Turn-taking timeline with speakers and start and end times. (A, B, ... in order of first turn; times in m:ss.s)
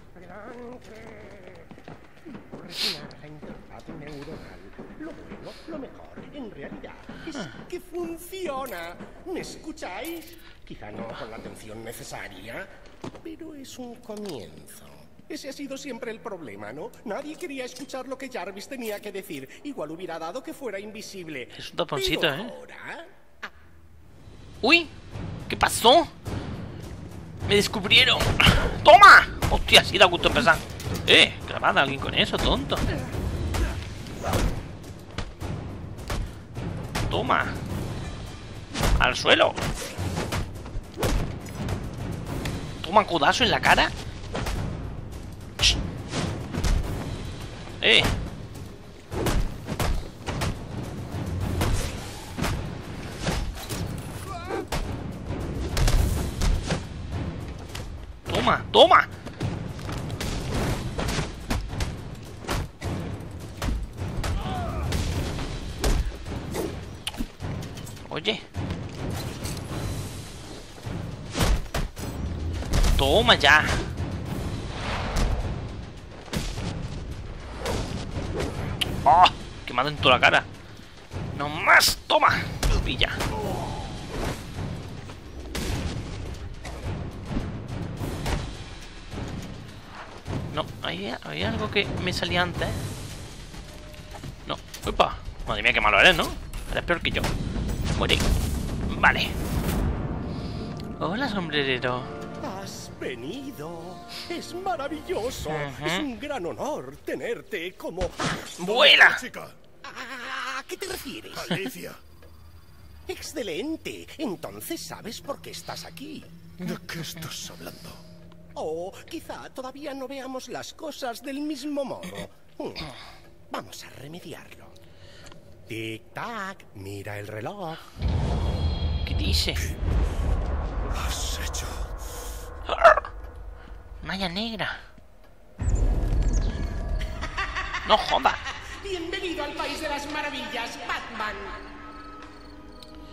0:00.2-0:01.6 A
0:02.2-0:23.5 A
0:21.5-0:22.6 B
0:24.6-0:24.9 B
0:25.5-0:26.1 B
0:27.5-0:32.8 B
0:37.1-0:37.6 B
0:39.0-0:39.6 B
0:42.8-0:43.9 B
0:47.8-0:48.1 B
0:58.3-0:59.1 B
1:08.1-1:08.4 B
1:13.0-1:13.8 B
1:19.0-1:20.5 B
1:21.3-1:23.2 B
1:30.5-1:32.8 B
1:34.4-1:37.3 B
1:37.9-1:38.2 B
1:38.9-1:39.3 B
1:41.0-1:42.1 B
1:42.4-1:48.8 A
1:45.5-1:46.1 B
1:48.6-1:49.2 B
1:48.6-1:49.6 C
1:49.8-1:51.6 A
1:51.3-1:52.0 C
1:53.1-1:56.3 A
1:56.6-1:58.0 C
1:58.5-2:02.9 A
2:03.5-2:04.8 A
2:05.7-2:07.8 A
2:09.0-2:09.6 B
2:10.9-2:11.9 C
2:12.7-2:13.1 B
2:14.0-2:14.8 B
2:17.4-2:17.7 A
2:17.8-2:18.4 B
2:18.6-2:21.6 A